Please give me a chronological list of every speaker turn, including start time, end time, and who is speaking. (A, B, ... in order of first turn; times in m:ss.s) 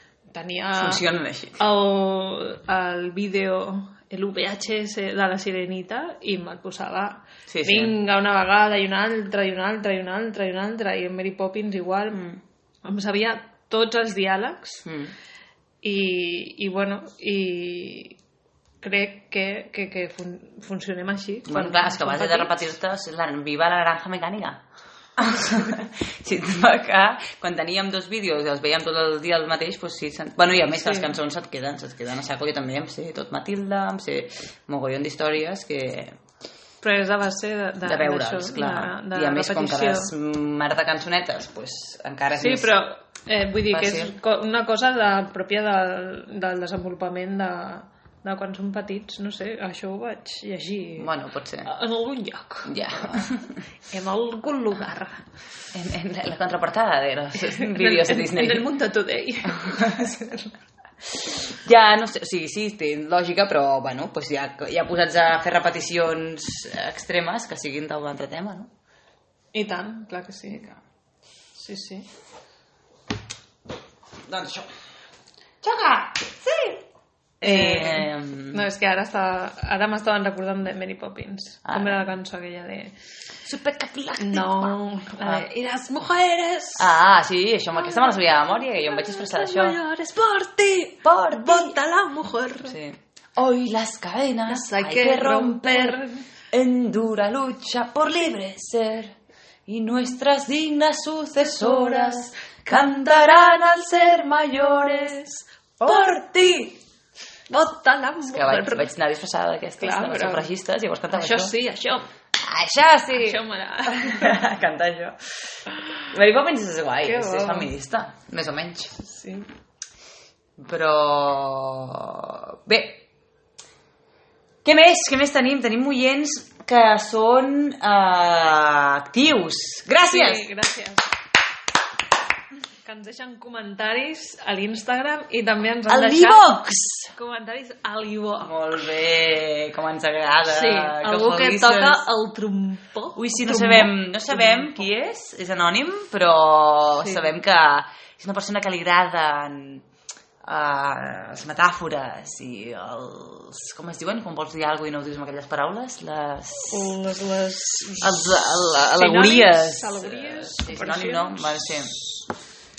0:00.3-0:01.0 A
0:00.7-0:01.6 B
0:01.6-0:12.2 A
0:07.5-0:07.9 B
0:12.1-0:12.4 B
0:12.8-0:14.8 A
0:14.8-0:15.1 B
0:15.8-0:18.2 A
0:18.8-0:22.6 A
0:21.5-0:24.6 B
0:25.2-0:36.1 B
0:30.7-0:31.1 A
0:36.8-0:40.1 A
0:37.8-0:42.7 B
0:42.4-0:51.1 A
0:43.7-0:44.1 B
0:51.0-0:51.7 B
0:51.6-0:53.2 A
0:52.6-0:53.6 B
0:53.9-0:55.2 A
0:55.7-0:58.7 B
0:57.4-1:00.5 A
0:59.6-1:00.0 B
1:01.1-1:08.7 B
1:09.5-1:10.7 A
1:11.6-1:12.1 A
1:14.3-1:14.7 B
1:15.6-1:16.8 B
1:17.4-1:18.6 B
1:17.4-1:22.9 A
1:21.6-1:22.1 B
1:23.4-1:25.4 B
1:24.2-1:27.0 A
1:26.8-1:29.8 B
1:27.7-1:32.8 A
1:31.0-1:31.7 B
1:32.6-1:39.1 B
1:34.5-1:36.2 A
1:39.7-1:46.8 B
1:41.5-1:42.2 A
1:45.8-1:46.2 A
1:47.5-1:48.9 A
1:48.2-1:51.5 B
1:49.8-1:50.5 A
1:51.1-1:52.0 A
1:52.4-1:55.2 B
1:53.1-1:54.4 A
1:56.0-1:58.9 B
1:57.0-1:57.7 A
1:59.0-1:59.5 A
2:00.6-2:03.0 B
2:04.6-2:10.4 B
2:10.1-2:11.1 A
2:12.8-2:16.6 A
2:15.9-2:17.1 B
2:17.1-2:18.6 A
2:18.4-2:22.0 B
2:20.4-2:24.8 A
2:23.2-2:29.8 B
2:27.0-2:27.4 A
2:30.4-2:37.0 B
2:36.7-2:42.1 A
2:38.0-2:42.0 B